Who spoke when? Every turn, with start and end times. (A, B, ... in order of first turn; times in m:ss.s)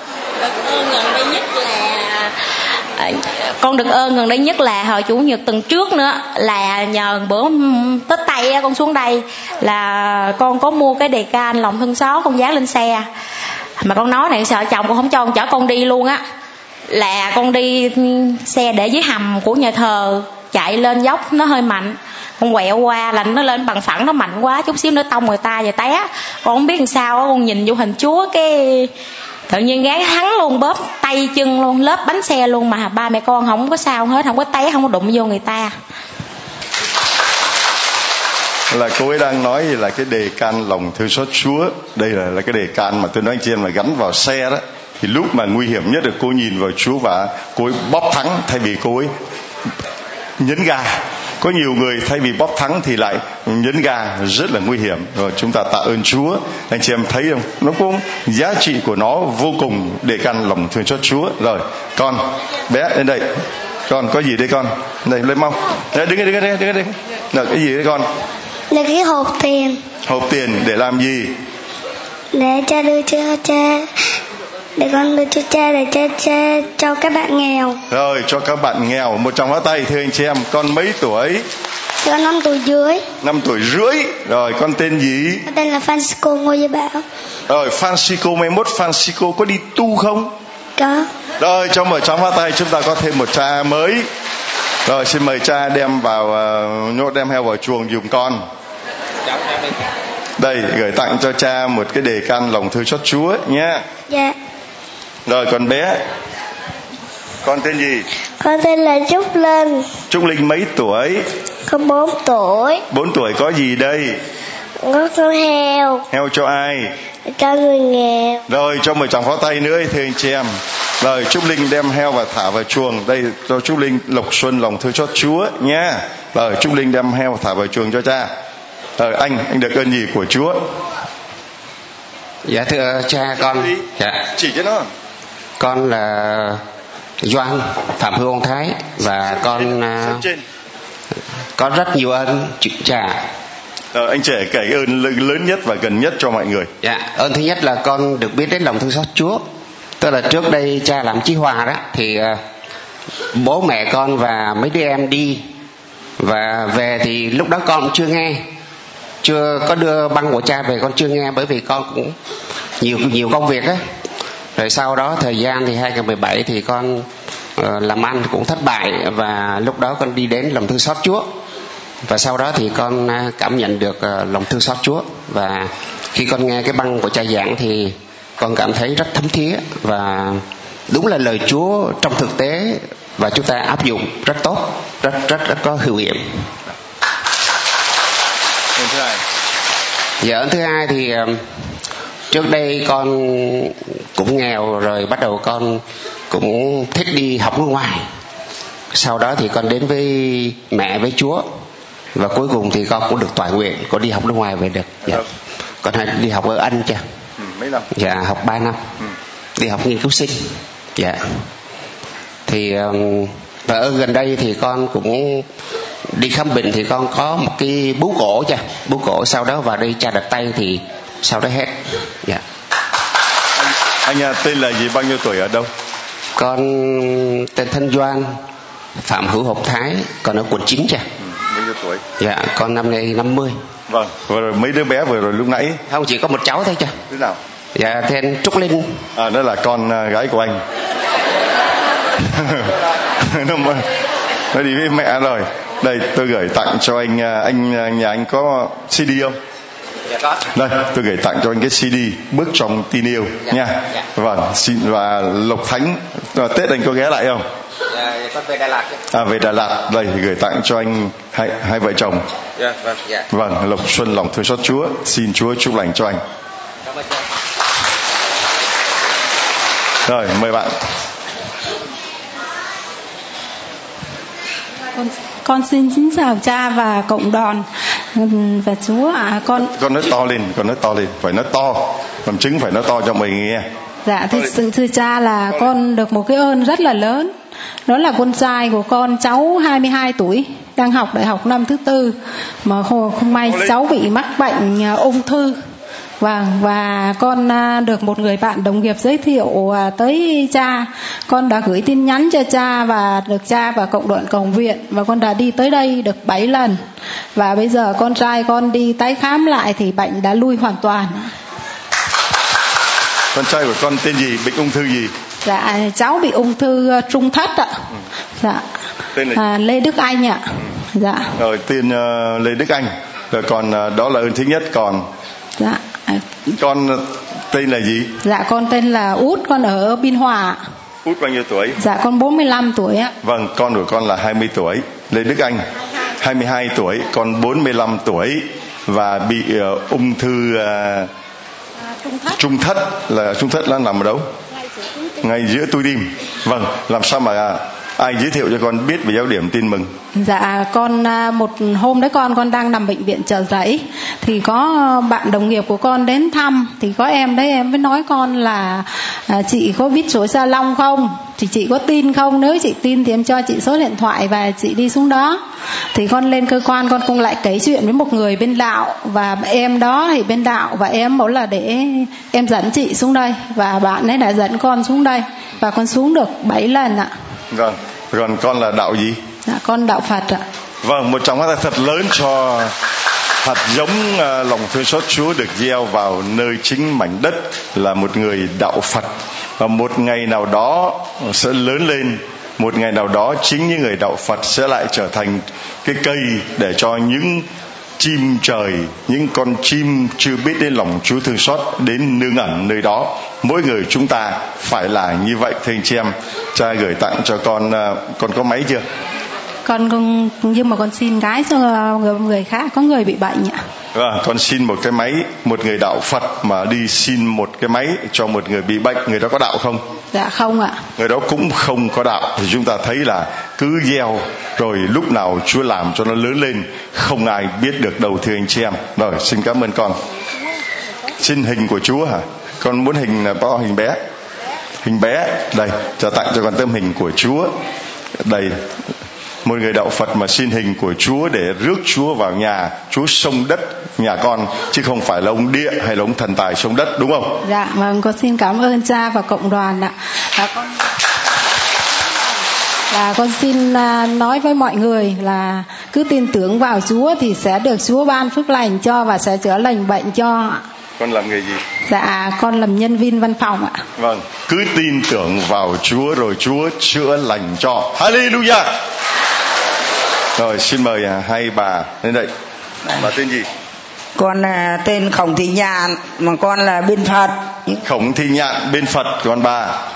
0:00.5-0:02.3 A
0:03.0-0:13.1 A
0:13.8-0:16.2 A
0:16.9-0:28.9 A
0:29.5-0:35.8 A
0:38.7-0:49.1 B
0:50.4-1:03.3 B
1:03.9-1:08.1 B
1:08.7-1:09.8 C
1:10.1-1:11.3 B
1:12.3-1:13.9 C
1:14.8-1:17.8 C
1:17.9-1:21.5 B
1:22.0-1:23.0 C
1:23.2-1:25.4 B
1:25.5-1:27.0 C
1:27.5-1:30.3 B
1:30.8-1:31.1 C
1:31.4-1:34.1 B
1:34.9-1:38.4 B
1:40.4-1:43.8 B
1:44.1-1:44.4 C
1:45.3-1:46.0 B
1:47.4-1:48.1 B
1:48.4-1:49.9 C
1:50.1-1:51.3 B
1:51.7-1:52.8 C
1:52.9-1:54.2 B
1:54.8-1:56.0 C
1:56.1-1:56.9 B
1:57.3-1:58.4 C
1:58.5-2:08.3 B
2:09.0-2:10.6 B
2:12.5-2:14.2 D
2:13.5-2:14.9 B
2:15.6-2:16.6 D
2:17.2-2:20.2 D
2:19.3-2:20.4 B
2:21.6-2:23.2 D
2:23.9-2:26.7 B
2:26.8-2:29.4 D
2:30.0-2:32.4 D
2:33.3-2:35.4 D
2:36.2-2:38.5 D
2:39.2-2:42.2 D
2:42.8-2:43.8 D
2:44.6-2:51.3 D
2:52.1-3:06.5 D
3:10.2-3:11.5 D
3:12.3-3:18.1 D
3:18.9-3:21.6 D
3:22.2-3:25.2 D
3:25.8-3:27.0 D
3:27.4-3:27.9 B
3:27.9-3:28.9 D
3:29.6-3:31.5 D
3:32.5-3:35.5 D
3:36.1-3:42.4 D
3:44.0-3:45.7 B
3:46.4-3:48.4 D
3:49.0-3:51.0 D
3:51.3-3:52.0 B
3:52.2-3:53.6 D
3:53.9-3:55.8 B
3:55.9-3:57.0 D
3:57.1-3:57.4 B
3:57.8-3:59.0 D
3:59.2-4:00.6 B
4:02.2-4:02.7 B
4:03.2-4:03.9 B
4:04.5-4:09.4 B
4:10.5-4:17.5 B
4:19.1-4:22.3 B
4:23.3-4:26.2 B
4:30.1-4:30.7 B
4:35.0-4:39.7 E
4:39.7-4:43.7 B
4:44.1-4:47.3 E
4:47.9-4:55.6 E
4:56.2-5:06.8 E
5:07.4-5:11.3 E
5:13.3-5:15.1 B
5:15.4-5:17.8 E
5:18.4-5:18.6 E
5:19.2-5:19.4 B
5:19.3-5:21.3 E
5:21.4-5:25.1 B
5:25.6-5:26.3 E
5:26.6-5:28.1 B
5:28.2-5:30.6 E
5:31.0-5:31.8 B
5:31.8-5:33.1 E
5:33.2-5:35.7 B
5:36.2-5:41.1 B
5:42.4-5:44.3 B
5:45.2-5:49.9 B
5:50.2-6:05.4 E
6:05.9-6:17.1 E
6:17.5-6:19.2 B
6:19.5-6:20.4 E
6:20.8-6:22.7 B
6:23.4-6:37.5 B
6:38.0-6:48.8 B
6:49.6-6:53.6 E
6:53.9-6:59.8 B
7:00.1-7:00.8 E
7:01.0-7:10.0 B
7:11.2-7:14.0 B
7:14.8-7:17.5 B
7:18.2-7:18.6 B
7:19.4-7:27.4 B
7:27.4-7:30.7 E
7:32.9-7:40.6 E
7:41.0-7:41.6 B
7:41.9-7:43.8 E
7:44.0-7:48.7 B
7:50.4-7:52.3 B
7:52.9-7:53.5 B
7:54.2-7:57.4 F
7:57.8-7:59.8 B